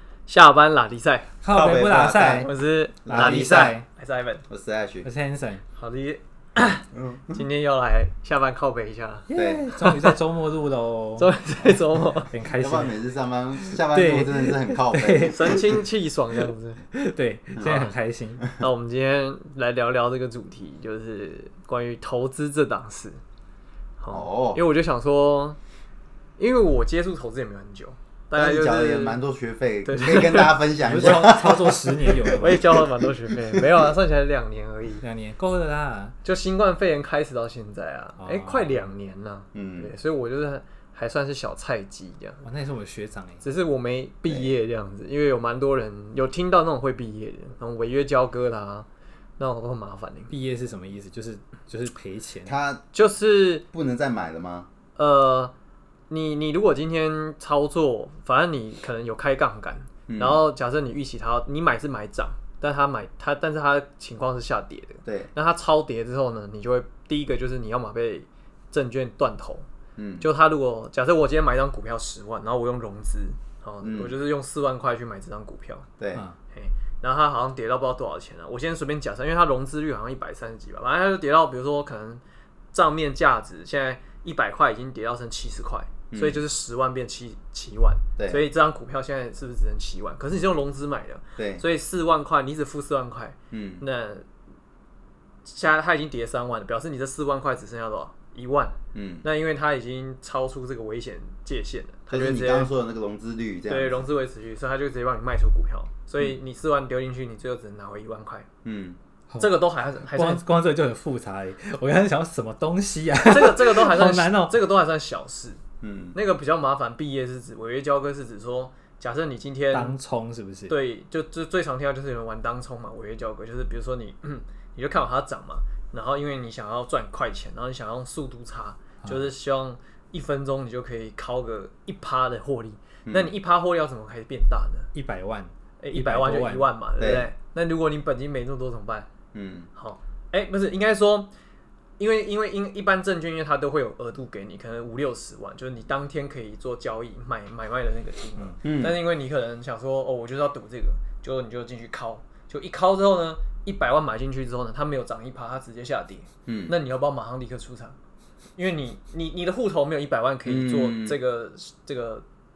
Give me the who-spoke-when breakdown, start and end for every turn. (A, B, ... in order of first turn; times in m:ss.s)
0:00.3-0:01.3 A
0:01.4-0:02.5 B
0:01.5-0:02.5 C
0:02.2-0:04.4 A
0:03.0-0:03.7 C
0:03.0-0:03.8 B
0:04.5-0:05.1 C
0:05.0-0:05.6 B
0:05.7-0:10.2 A
0:06.9-0:07.4 C
0:09.3-0:11.3 B
0:09.3-0:09.6 C
0:11.2-0:12.3 A
0:12.3-0:13.0 B
0:12.5-0:15.8 C
0:13.6-0:15.8 B
0:15.3-0:16.8 A
0:16.9-0:18.4 B
0:17.6-0:18.5 C
0:18.6-0:23.2 A
0:24.0-0:25.6 A
0:24.1-0:24.6 C
0:26.4-0:29.2 A
0:28.3-0:33.6 C
0:29.8-0:31.3 A
0:30.8-0:32.8 B
0:32.3-0:35.0 A
0:35.0-0:36.2 B
0:36.2-0:42.4 A
0:38.2-0:38.9 B
0:39.5-0:39.9 C
0:42.4-0:43.4 B
0:43.4-0:48.9 A
0:44.3-0:44.5 C
0:49.4-0:50.3 A
0:50.3-0:52.6 B
0:52.4-0:52.8 C
0:52.9-0:53.6 A
0:53.7-0:54.7 C
0:55.0-0:55.5 A
0:56.1-1:09.6 A
1:00.1-1:00.4 C
1:05.0-1:05.3 C
1:10.0-1:10.3 C
1:10.2-1:15.9 A
1:13.8-1:14.1 C
1:16.5-1:22.2 A
1:22.7-1:34.2 A
1:26.1-1:26.4 C
1:28.2-1:28.4 C
1:31.4-1:31.6 C
1:33.5-1:33.8 C
1:35.4-1:42.7 A
1:38.9-1:39.2 C
1:42.1-1:44.0 C
1:43.7-1:48.5 A
1:48.6-1:49.0 C
1:49.3-1:54.6 B
1:49.4-1:50.4 A
1:53.2-1:55.6 A
1:55.8-1:56.2 C
1:56.1-2:00.0 A
1:59.7-2:00.7 B
2:00.7-2:14.9 A
2:09.0-2:09.3 B
2:13.0-2:13.3 C
2:14.9-2:16.7 B
2:15.8-2:19.1 A
2:17.0-2:17.3 C
2:19.3-2:19.7 C
2:19.7-2:21.3 A
2:22.0-2:38.0 A
2:28.6-2:29.0 C
2:36.4-2:36.7 C
2:38.6-2:42.2 A
2:40.4-2:41.2 C